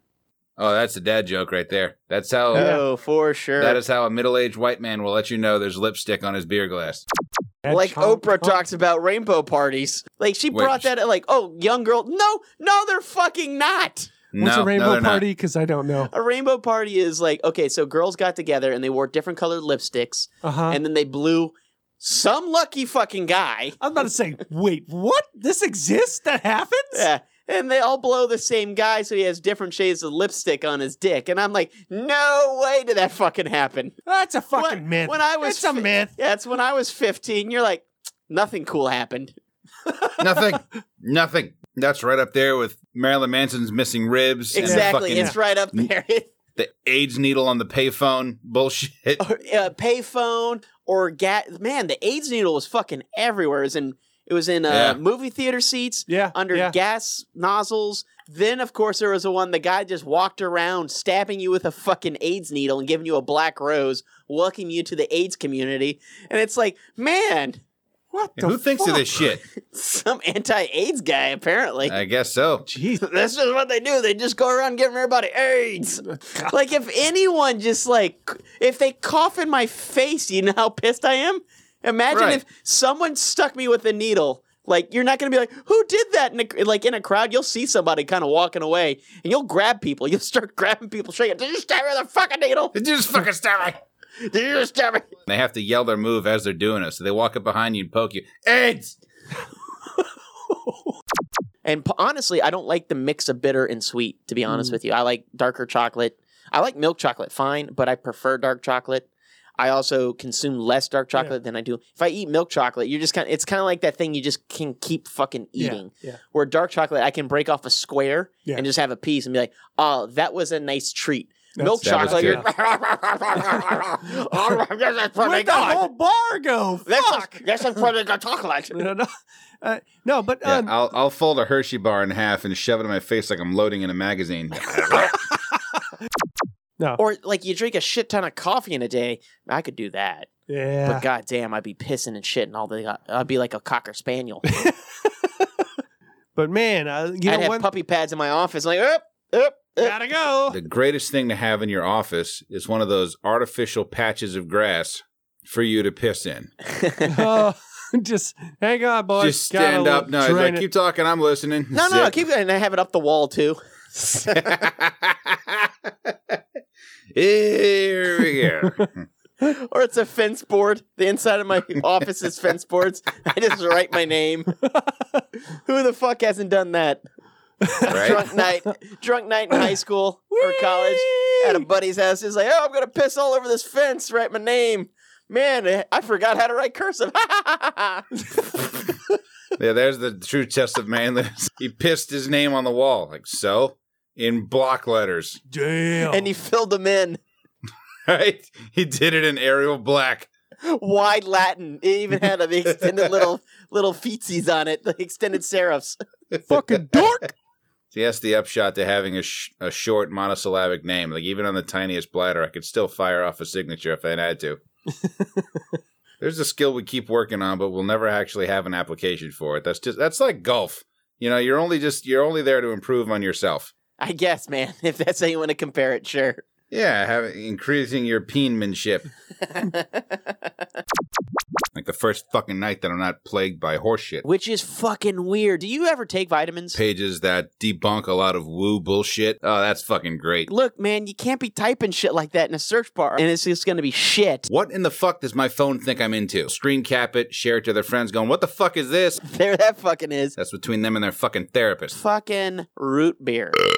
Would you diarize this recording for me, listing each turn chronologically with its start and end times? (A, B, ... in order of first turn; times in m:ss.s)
0:00.6-0:02.7 A
0:02.5-0:02.8 B
0:02.5-0:03.8 C
0:03.6-0:07.0 A
0:07.6-0:08.6 B
0:07.7-0:14.1 C
0:10.5-0:10.9 A
0:14.3-0:15.2 A
0:14.4-0:16.1 B
0:16.1-0:23.8 C
0:20.4-0:20.8 B
0:23.8-0:27.0 B
0:26.9-0:34.0 C
0:34.1-0:36.1 B
0:34.5-0:39.3 C
0:40.2-0:45.9 A
0:44.5-0:46.3 C
0:44.6-0:45.3 B
0:46.6-0:49.2 A
0:49.2-1:07.6 C
0:54.7-0:55.0 A
0:56.1-0:56.7 B
1:08.1-1:09.1 B
1:08.4-1:09.4 A
1:09.5-1:11.9 C
1:11.8-1:12.6 A
1:12.6-1:13.0 B
1:12.9-1:32.7 C
1:22.1-1:22.4 A
1:32.7-1:33.8 A
1:34.2-1:35.1 C
1:35.3-1:39.0 A
1:41.6-2:05.9 C
1:44.5-1:44.8 B
1:55.6-1:56.2 B
2:01.6-2:02.4 B
2:01.8-2:02.4 A
2:05.2-2:07.4 B
2:06.8-2:08.8 C
2:08.7-2:09.1 B
2:09.6-2:10.7 B
2:10.4-2:15.1 A
2:14.9-2:15.6 B
2:17.0-2:20.3 C
2:20.5-2:21.0 B
2:20.8-2:24.4 C
2:24.5-2:25.0 B
2:26.4-2:27.7 B
2:27.2-2:30.0 C
2:29.8-2:30.6 B
2:30.5-2:36.5 A
2:37.0-2:40.7 B
2:39.2-2:42.1 A
2:41.7-2:44.7 C
2:44.6-2:45.6 A
2:47.1-2:49.0 A
2:49.4-2:54.5 C
2:55.6-2:57.0 C
2:57.6-2:58.4 B
2:57.8-3:08.9 C
2:57.9-2:58.2 A
3:00.3-3:01.6 B
3:09.6-3:15.4 A
3:15.5-3:16.3 B
3:16.0-3:17.2 C
3:18.1-3:20.3 A
3:20.6-3:26.0 C
3:26.5-3:27.3 B
3:27.9-3:34.6 A
3:36.2-3:43.7 A
3:44.0-3:46.4 C
3:46.7-3:49.1 A
3:49.5-3:50.0 C
3:51.7-3:54.2 A
3:54.2-3:56.8 C
3:56.7-4:00.5 A
4:00.5-4:04.5 C
4:04.5-4:09.2 A
4:09.2-4:10.4 C
4:10.4-4:11.9 A
4:11.9-4:13.6 C